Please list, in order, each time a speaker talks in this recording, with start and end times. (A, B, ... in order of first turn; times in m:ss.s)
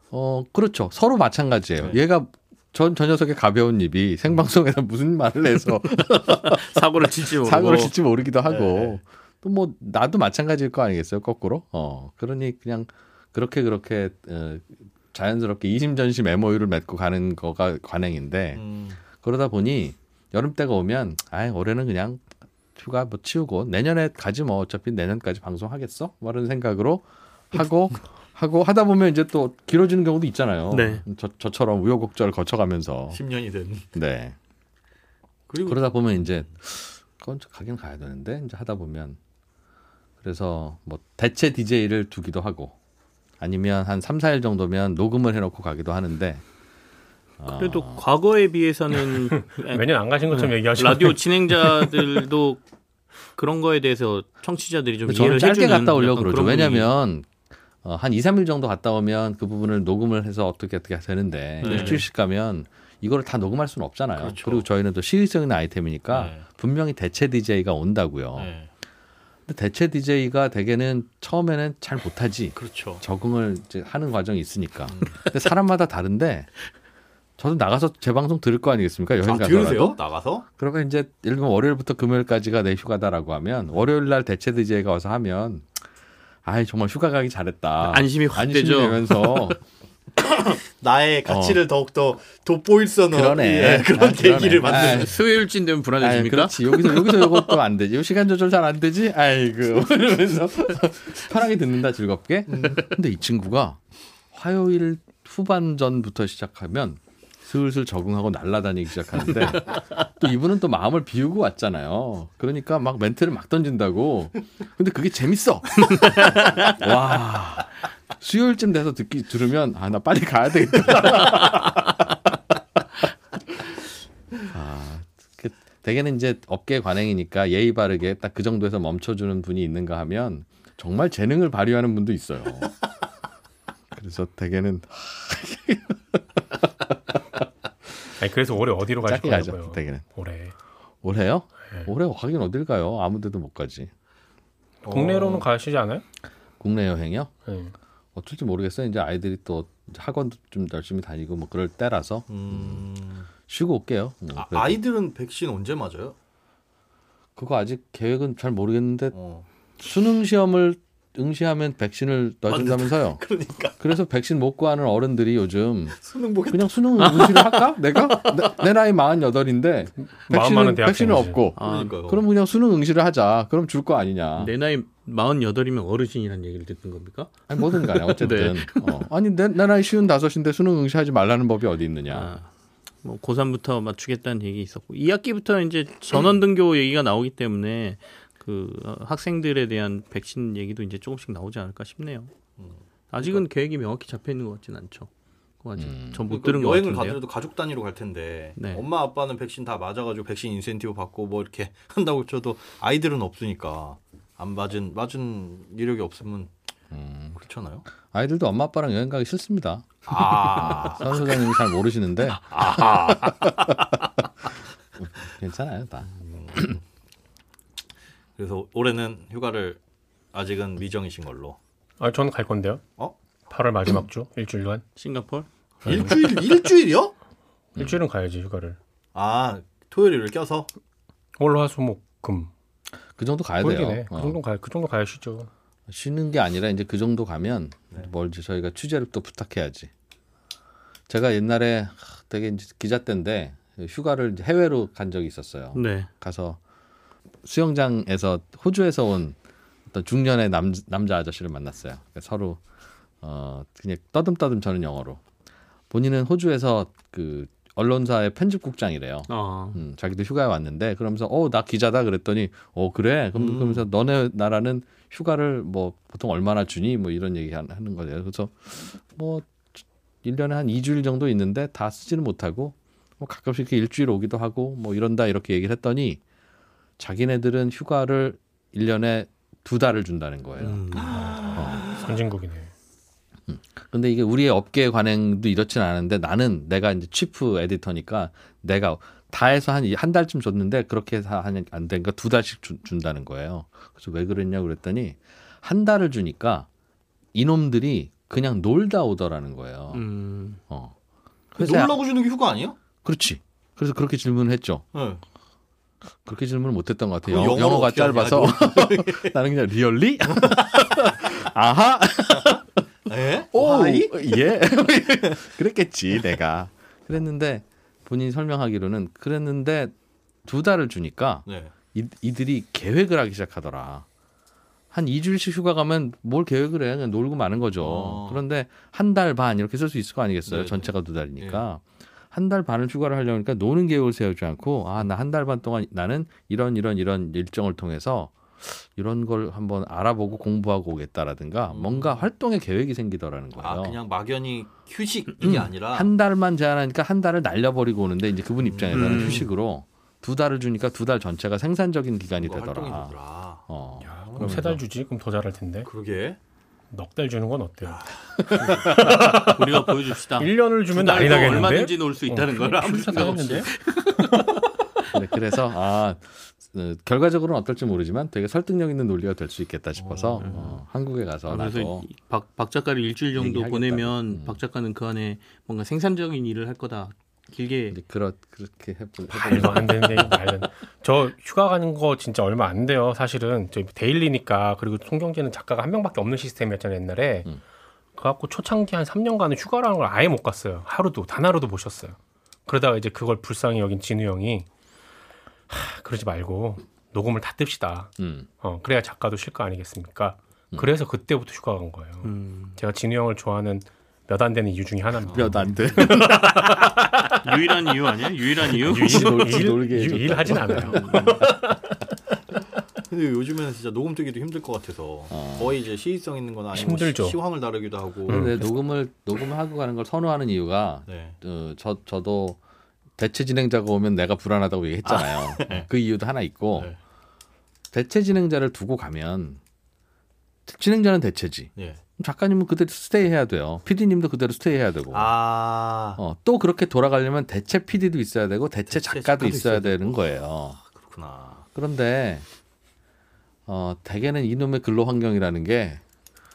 0:00.1-0:33.2 A
0:06.3-0:08.0 B
0:08.4-0:09.0 C
0:18.5-0:19.0 C
0:30.7-0:31.0 B
0:33.1-0:33.9 C
0:33.9-0:34.4 A
0:35.5-0:36.5 C
0:35.6-0:39.2 A
0:40.2-0:42.8 A
0:43.4-0:46.4 A
0:47.4-0:48.0 A
0:47.4-0:52.6 B
0:49.3-0:52.0 D
0:53.4-0:56.9 B
0:55.0-0:57.3 A
0:57.8-1:08.5 A
1:01.6-1:02.0 C
1:01.7-1:02.0 B
1:04.1-1:04.7 C
1:06.1-1:06.4 C
1:08.3-1:08.7 C
1:09.5-1:16.5 A
1:12.5-1:13.0 C
1:14.9-1:15.2 C
1:17.4-1:25.7 A
1:19.2-1:20.4 C
1:26.4-1:29.6 A
1:27.8-1:29.5 B
1:30.4-1:35.2 C
1:31.2-1:31.6 A
1:33.1-1:35.1 A
1:34.6-1:37.5 B
1:36.0-1:43.8 A
1:42.5-1:42.8 C
1:44.3-2:02.0 A
1:56.0-1:56.7 B
2:04.4-2:12.7 A
2:13.9-2:16.6 A
2:18.2-2:20.5 D
2:19.0-2:20.0 A
2:21.0-2:23.9 A
2:24.8-2:26.0 D
2:24.8-2:25.5 C
2:26.6-2:27.3 A
2:27.4-2:27.7 D
2:28.1-2:32.8 A
2:32.3-2:33.3 C
2:33.5-2:34.8 A
2:34.3-2:36.2 C
2:37.4-2:39.2 A
2:39.1-2:39.4 C
2:39.8-2:43.2 A
2:42.5-2:43.8 C
2:43.8-2:46.0 A
2:45.9-2:47.4 C
2:46.5-2:54.5 A
2:47.0-2:47.4 B
2:50.0-2:51.4 D
2:51.6-2:52.0 B
2:51.6-2:52.3 C
2:54.4-2:59.0 B
2:57.5-3:02.3 A
3:02.1-3:02.5 B
3:03.0-3:12.3 B
3:12.6-3:13.4 C
3:13.1-3:15.1 B
3:15.6-3:17.2 B
3:15.8-3:16.2 A
3:16.3-3:26.5 C
3:18.6-3:18.9 B
3:26.9-3:27.4 A
3:27.3-3:27.8 C
3:27.9-3:33.7 A
3:30.1-3:31.6 C
3:32.5-3:33.5 C
3:35.0-3:36.8 A
3:38.4-3:39.8 C
3:40.3-3:41.6 C
3:42.0-3:42.8 D
3:43.5-3:44.8 D
3:45.0-3:46.5 B
3:45.8-3:46.2 A
3:45.8-3:47.1 C
3:47.8-3:48.0 A
3:47.8-3:48.8 D
3:49.1-3:50.7 C
3:51.4-3:52.5 D
3:53.2-3:54.4 A
3:53.6-3:55.5 D
3:55.9-3:59.9 A
4:01.1-4:06.6 A
4:05.7-4:06.1 B
4:07.4-4:09.4 A
4:09.9-4:12.6 A
4:13.2-4:15.2 A
4:15.9-4:36.2 A
4:19.3-4:19.8 B
4:23.3-4:23.8 C
4:37.0-4:40.8 A
4:40.6-4:42.0 B
4:41.1-4:41.7 C
4:41.4-4:41.8 A
4:41.6-4:42.7 D
4:43.5-4:56.7 A
4:57.3-5:00.0 A
4:59.9-5:00.6 B
5:00.7-5:00.9 A
5:01.5-5:02.0 A
5:01.6-5:02.8 C
5:03.0-5:04.8 A
5:04.9-5:05.2 C
5:06.2-5:12.8 A
5:07.2-5:09.3 C
5:13.1-5:14.5 C
5:13.5-5:19.9 A
5:20.4-5:24.0 A
5:21.4-5:21.7 C
5:24.9-5:44.0 A
5:27.8-5:28.4 C
5:30.4-5:31.6 C
5:41.7-5:42.2 C
5:43.6-5:46.1 C
5:45.4-5:53.2 A
5:48.6-5:49.5 C
5:48.9-5:49.5 B
5:52.4-5:54.6 C
5:53.7-5:54.8 A
5:54.0-5:55.9 D
5:55.8-5:56.4 C
5:56.9-5:59.8 D
5:58.4-5:58.9 A
5:59.1-6:04.7 B
6:00.4-6:03.7 D
6:04.3-6:04.5 D
6:05.1-6:12.1 A
6:10.0-6:10.6 C
6:10.4-6:10.8 B
6:11.5-6:18.0 B
6:13.3-6:14.6 A
6:17.9-6:20.5 A
6:19.3-6:27.5 D
6:28.2-6:34.7 D
6:35.7-6:46.8 D
6:38.2-6:38.5 A
6:42.2-6:42.8 B
6:45.3-6:45.6 C
6:45.3-6:46.8 A
6:46.8-6:49.5 B
6:48.7-6:51.9 D
6:48.9-6:51.5 A
6:51.0-6:51.4 B
6:53.1-6:58.4 C
6:55.3-6:55.8 A
6:56.7-6:57.4 D
6:58.3-6:58.8 D
6:58.3-7:02.6 A
7:01.1-7:01.4 C
7:03.2-7:06.9 A
7:05.1-7:05.4 B
7:05.4-7:05.9 C
7:07.9-7:09.6 A
7:10.7-7:15.4 A
7:15.1-7:16.2 C
7:16.2-7:20.8 A
7:18.9-7:21.6 C
7:21.7-7:22.4 A
7:23.7-7:26.0 A